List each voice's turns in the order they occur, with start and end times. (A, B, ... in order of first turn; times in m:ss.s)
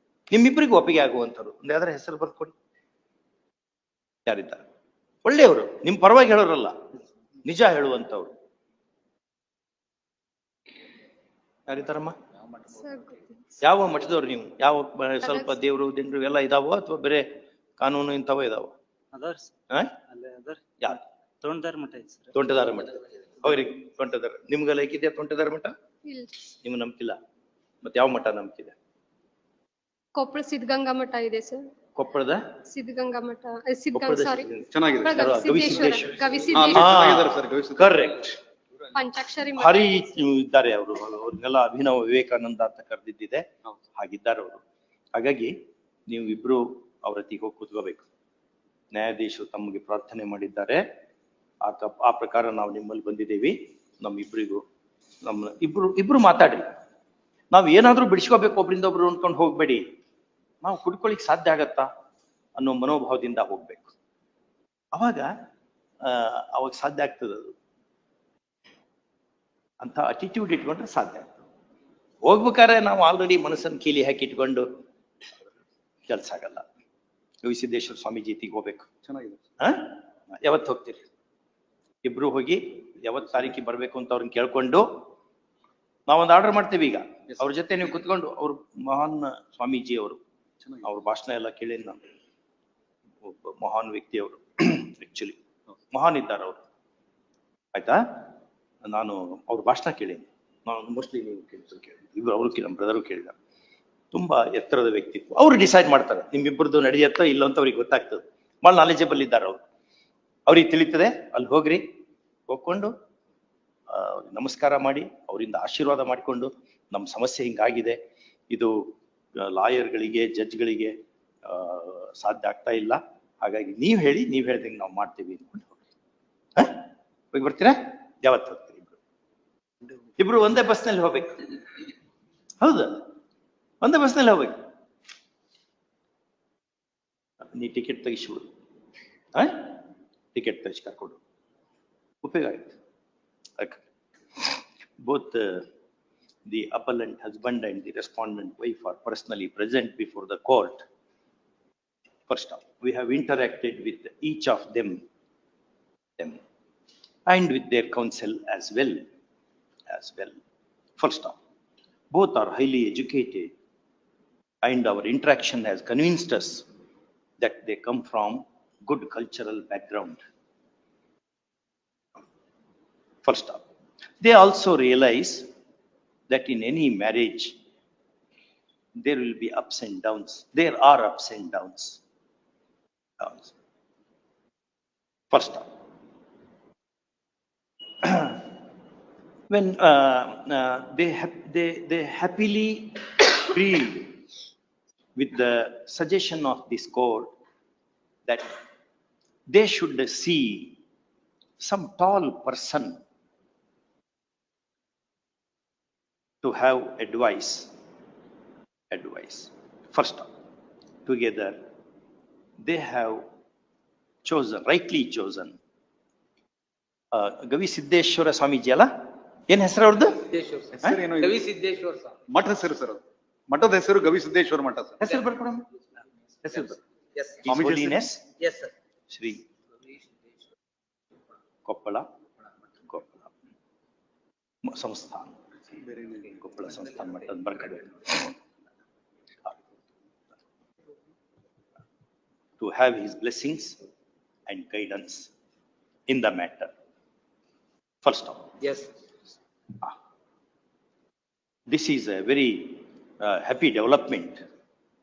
0:00.3-0:02.5 A
0:04.2-0:04.6 A
0:05.2-0:06.8 A
0:07.4-0:08.3 A
0:11.7-0:12.1 A
0:12.7-0:13.5 B
0:13.6-0:17.2 A
0:15.2-0:15.5 B
0:17.8-0:18.7 A
0:19.1-0:19.5 C
0:20.1-0:22.3 C
0:22.3-0:25.7 A
0:26.0-0:26.4 B
0:26.6-0:27.2 A
0:27.8-0:28.7 A
0:30.2-0:31.6 B
0:32.0-0:32.4 A
0:32.7-0:34.5 B
0:33.9-0:38.4 A
0:34.7-0:35.3 D
0:35.0-0:36.9 B
0:36.5-0:38.0 D
0:38.9-0:40.0 B
0:39.6-0:44.6 A
0:45.1-0:45.5 A
0:46.1-0:48.0 A
0:48.9-0:50.8 A
0:51.6-0:54.6 A
0:55.2-0:56.6 A
0:57.5-0:59.8 A
1:00.6-1:01.9 A
1:02.6-1:03.9 A
1:04.9-1:05.3 A
1:06.0-1:07.5 A
1:09.8-1:11.4 A
1:12.2-1:14.6 A
1:16.1-1:16.6 A
1:17.4-1:18.9 A
1:19.0-1:19.4 D
1:19.6-1:21.0 A
1:22.0-1:24.8 A
1:26.1-1:30.2 A
1:30.8-1:32.0 A
1:33.2-1:35.4 A
1:35.9-1:36.6 A
1:37.7-1:38.0 A
1:38.8-1:43.3 A
1:44.1-1:49.6 A
1:50.5-1:51.8 A
1:52.5-1:52.9 A
1:53.9-1:58.0 A
1:58.5-2:00.9 A
2:01.4-2:05.8 A
2:06.6-2:08.9 A
2:10.2-2:11.5 A
2:12.6-2:13.1 A
2:13.8-2:14.6 A
2:17.5-2:18.5 A
2:19.3-2:19.8 A
2:20.3-2:21.2 A
2:22.2-2:22.7 A
2:24.4-2:25.7 A
2:26.5-2:30.8 A
2:32.3-2:35.0 A
2:37.2-2:39.0 A
2:39.9-2:40.4 A
2:41.0-2:41.4 A
2:42.1-2:43.5 A
2:44.6-2:46.6 A
2:47.4-2:50.2 A
2:53.2-2:53.6 A
2:54.2-2:55.5 A
2:56.3-2:57.5 A
2:59.0-3:02.0 A
3:03.2-3:03.5 A
3:05.3-3:05.6 A
3:08.0-3:08.5 A
3:09.5-3:14.2 A
3:15.2-3:17.3 A
3:18.2-3:18.5 A
3:19.5-3:20.8 A
3:21.6-3:23.0 A
3:26.4-3:27.7 A
3:28.9-3:30.3 A
3:31.0-3:31.6 A
3:32.6-3:33.2 A
3:34.2-3:35.6 A
3:37.1-3:38.9 A
3:39.5-3:40.3 A
3:40.3-3:42.1 E
3:40.7-3:41.5 D
3:42.3-3:45.0 D
3:45.0-3:45.6 A
3:46.4-3:46.8 A
3:47.4-3:48.2 A
3:47.4-3:48.0 D
3:48.4-3:48.7 E
3:49.1-3:49.4 A
3:51.6-3:52.0 A
3:52.9-3:53.3 A
3:54.6-3:55.3 A
3:55.8-3:56.3 D
3:56.2-3:58.4 A
4:02.6-4:03.8 A
4:04.5-4:05.3 A
4:06.1-4:06.7 A
4:08.0-4:08.6 A
4:11.7-4:14.4 A